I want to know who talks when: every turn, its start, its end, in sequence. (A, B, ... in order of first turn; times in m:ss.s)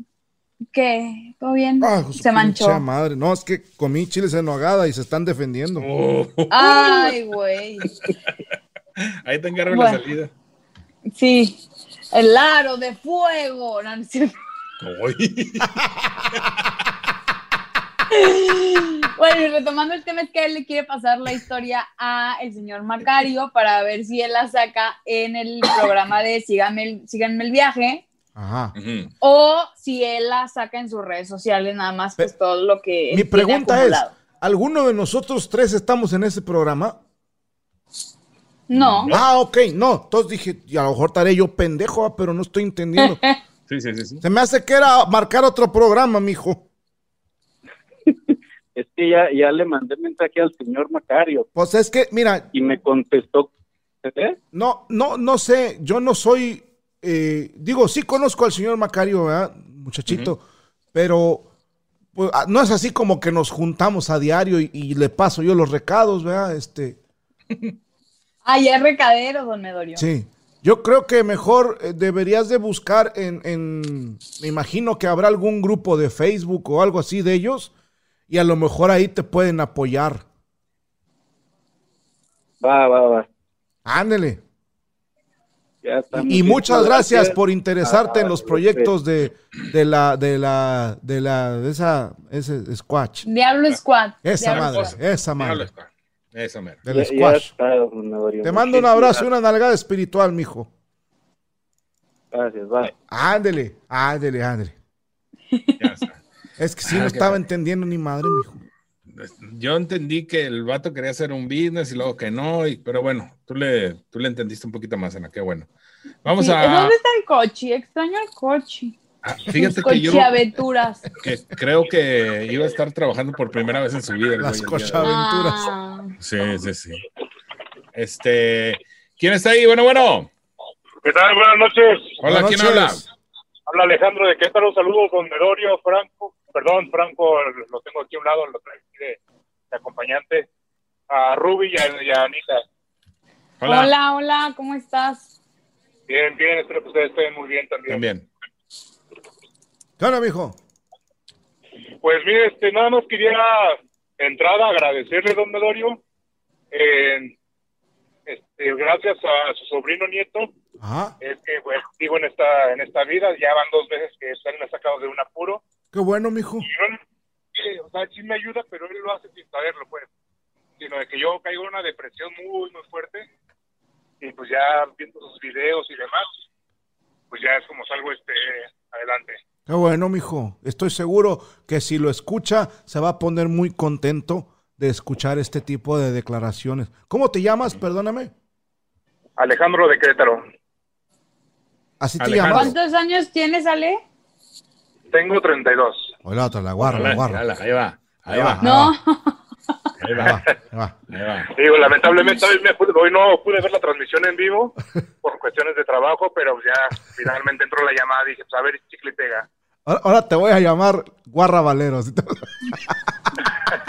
0:00.7-0:02.8 A
0:01.8-0:05.9 B
0:05.8-0:07.2 C
0:06.5-0:07.9 A
0:09.0-0:10.3 C
0:09.7-0:10.0 A
0:11.1-0:14.4 A
0:14.8-0:15.8 C
0:18.1-0:28.0 A
0:28.4-0:28.8 B
0:28.8-0:29.1 C
0:29.2-0:34.1 A
0:33.1-0:37.0 B
0:38.7-0:39.2 A
0:38.8-0:39.2 C
0:39.1-0:43.2 B
0:43.0-0:43.4 A
0:43.7-0:44.2 C
0:44.2-0:46.6 B
0:48.3-0:51.5 D
0:51.6-0:52.5 B
0:52.5-0:53.5 D
0:54.0-0:54.4 D
0:54.5-1:00.4 B
1:00.9-1:01.5 B
1:02.2-1:07.0 B
1:07.5-1:07.8 C
1:08.4-1:10.0 A
1:10.0-1:17.7 B
1:18.3-1:20.2 B
1:22.6-1:23.3 D
1:23.8-1:24.4 B
1:25.8-1:28.9 D
1:26.1-1:33.2 B
1:33.2-1:34.9 A
1:34.2-1:35.7 B
1:34.4-1:36.8 C
1:36.9-1:37.5 B
1:36.9-1:39.3 D
1:38.4-1:40.7 B
1:42.3-1:42.9 D
1:43.1-1:44.8 B
1:45.5-1:45.8 A
1:45.8-1:46.2 C
1:46.6-1:48.6 B
1:46.8-1:47.4 C
1:49.1-1:55.7 C
1:56.2-1:57.0 C
1:56.4-1:59.0 A
1:59.2-2:00.5 C
1:59.5-2:01.1 A
2:01.2-2:05.1 C
2:04.4-2:05.7 B
2:05.0-2:06.1 A
2:06.2-2:07.0 C
2:08.0-2:10.3 C
2:11.0-2:12.2 E
2:12.2-2:13.0 C
2:12.2-2:13.0 B
2:13.7-2:19.2 E
2:19.7-2:20.5 E
2:21.1-2:22.6 E
2:23.6-2:23.9 C
2:23.6-2:25.3 A
2:26.1-2:28.0 E
2:27.9-2:28.3 C
2:30.0-2:30.6 B
2:32.0-2:36.0 E
2:36.7-2:37.4 E
2:38.3-2:40.5 E
2:40.8-2:41.2 B
2:41.2-2:45.6 E
2:45.9-2:46.7 B
2:46.6-2:47.0 E
2:47.5-2:50.1 E
2:50.8-2:53.3 E
2:54.2-2:56.3 E
2:57.3-2:59.4 E
2:59.7-3:08.3 B
3:09.4-3:10.5 E
3:12.0-3:12.7 B
3:12.2-3:12.7 C
3:12.5-3:14.0 A
3:15.1-3:16.2 E
3:16.2-3:17.4 B
3:16.8-3:18.6 C
3:18.3-3:18.9 B
3:18.6-3:19.4 A
3:20.0-3:20.4 C
3:20.2-3:21.0 B
3:21.1-3:21.5 C
3:21.5-3:29.5 E
3:29.9-3:33.0 B